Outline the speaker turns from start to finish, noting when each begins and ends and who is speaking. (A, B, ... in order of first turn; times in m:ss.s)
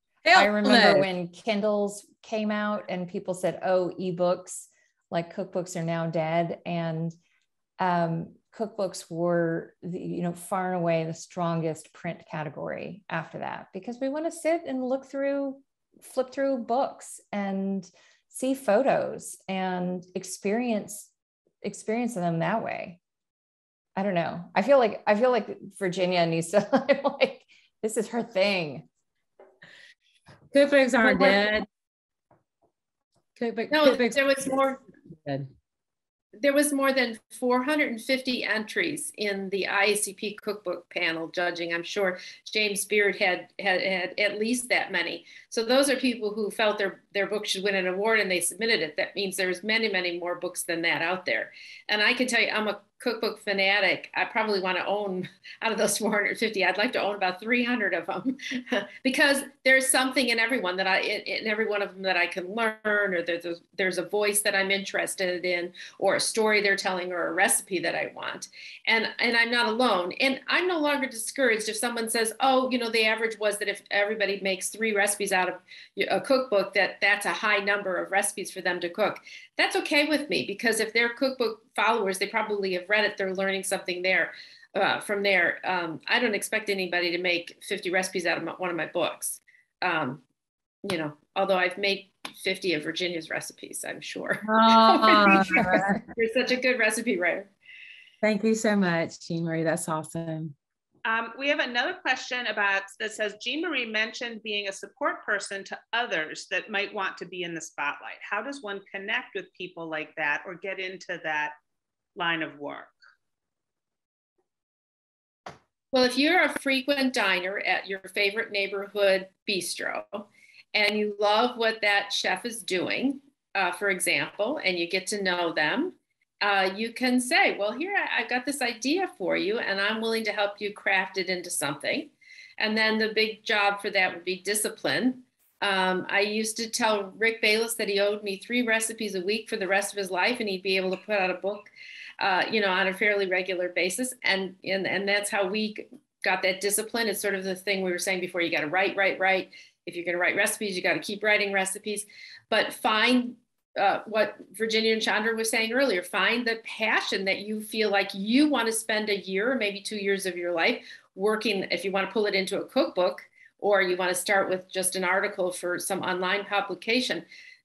0:00.2-0:01.1 A
0:00.3-0:07.2 B
0:07.8-0:21.1 B
0:21.6-0:23.0 B
0:24.0-0:28.9 B
0:30.5-0:31.7 A
0:33.4-0:35.5 A
0:33.7-0:34.8 C
0:36.4-1:30.2 C
1:30.8-1:37.5 C
1:34.5-1:36.0 A
1:38.2-1:40.6 A
1:41.0-1:51.5 D
1:52.2-1:52.9 D
1:55.9-2:47.2 C